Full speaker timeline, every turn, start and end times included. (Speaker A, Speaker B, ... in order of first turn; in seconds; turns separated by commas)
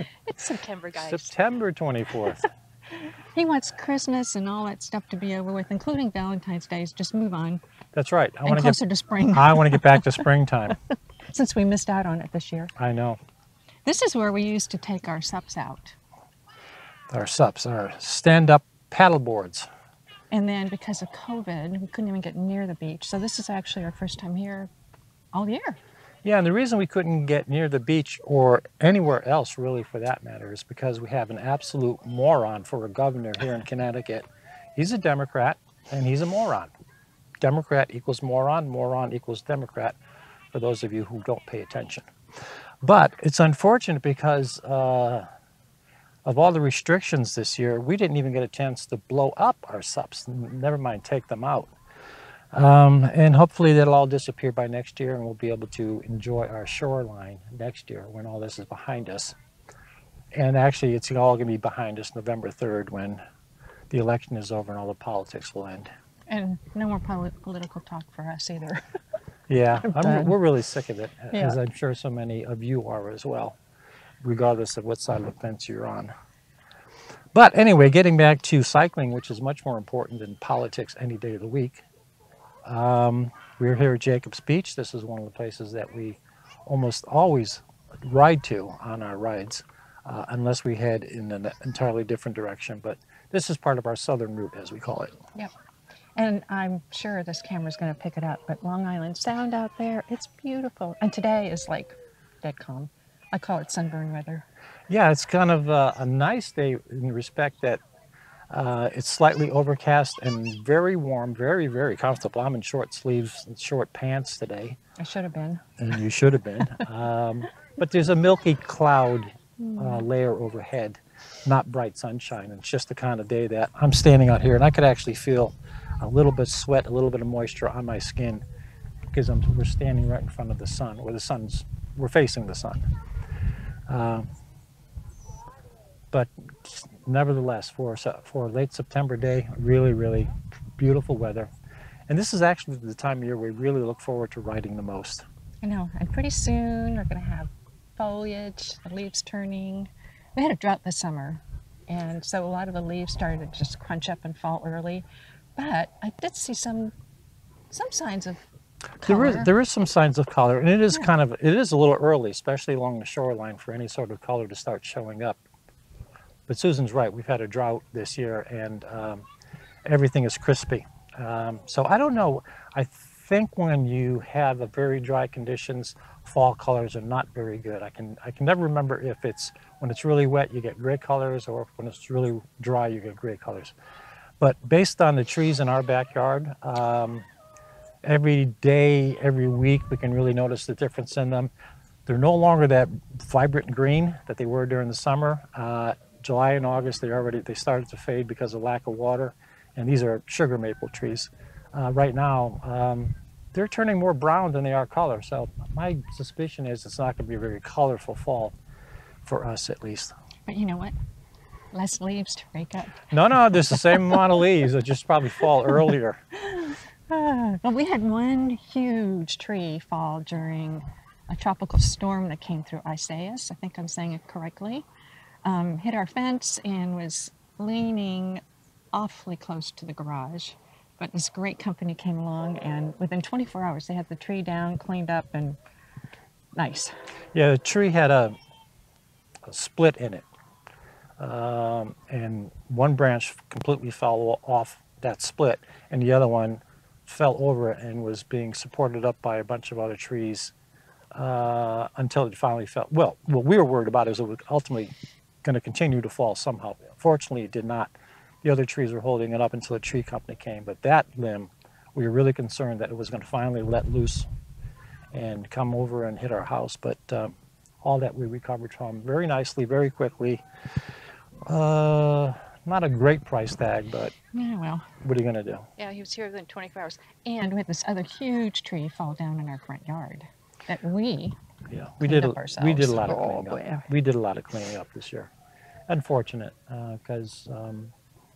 Speaker A: 0.3-1.3, Speaker B: 0.9-2.5, Speaker A: 3.0-7.6, Speaker B: 7.9-8.8, Speaker A: 8.5-10.2, Speaker B: 9.3-10.8, Speaker A: 11.3-12.7, Speaker B: 12.8-13.2, Speaker A: 13.8-16.0, Speaker B: 17.1-19.7, Speaker A: 20.3-24.7, Speaker A: 25.3-25.8, Speaker B: 26.2-36.7, Speaker B: 37.4-40.0, Speaker B: 40.5-42.1, Speaker B: 42.8-45.3, Speaker B: 46.2-51.7, Speaker B: 52.5-59.4, Speaker B: 60.3-63.2, Speaker B: 63.9-65.9, Speaker A: 66.3-68.8, Speaker B: 69.5-73.6, Speaker A: 69.8-70.4, Speaker A: 71.3-71.6, Speaker B: 74.2-76.1, Speaker B: 77.3-81.8, Speaker B: 82.7-95.2, Speaker A: 96.2-104.5, Speaker B: 104.9-107.8, Speaker B: 108.5-114.8, Speaker A: 115.0-115.6, Speaker B: 115.8-128.4, Speaker A: 119.6-120.0, Speaker B: 129.1-132.9, Speaker B: 133.9-134.3, Speaker B: 136.1-141.5, Speaker B: 142.1-145.3, Speaker A: 145.6-155.1, Speaker A: 155.6-156.9, Speaker A: 157.7-158.5, Speaker A: 159.0-159.5, Speaker B: 159.1-165.4, Speaker B: 166.5-169.2, Speaker B: 169.9-183.8, Speaker B: 184.4-187.3, Speaker B: 188.0-191.5, Speaker B: 192.1-208.6, Speaker B: 209.2-210.2, Speaker A: 210.5-210.9, Speaker A: 211.7-213.1, Speaker B: 213.1-216.2, Speaker A: 213.7-214.1, Speaker A: 216.4-224.9, Speaker A: 225.4-228.4, Speaker A: 228.9-235.6, Speaker A: 236.6-236.9, Speaker B: 237.3-238.4, Speaker B: 239.5-240.2, Speaker B: 241.2-250.5, Speaker B: 251.1-264.3, Speaker B: 265.1-270.4, Speaker B: 271.5-274.1, Speaker A: 274.3-274.9, Speaker B: 275.0-275.7, Speaker A: 275.8-281.4, Speaker B: 281.7-285.3, Speaker A: 282.0-283.9, Speaker B: 285.9-287.9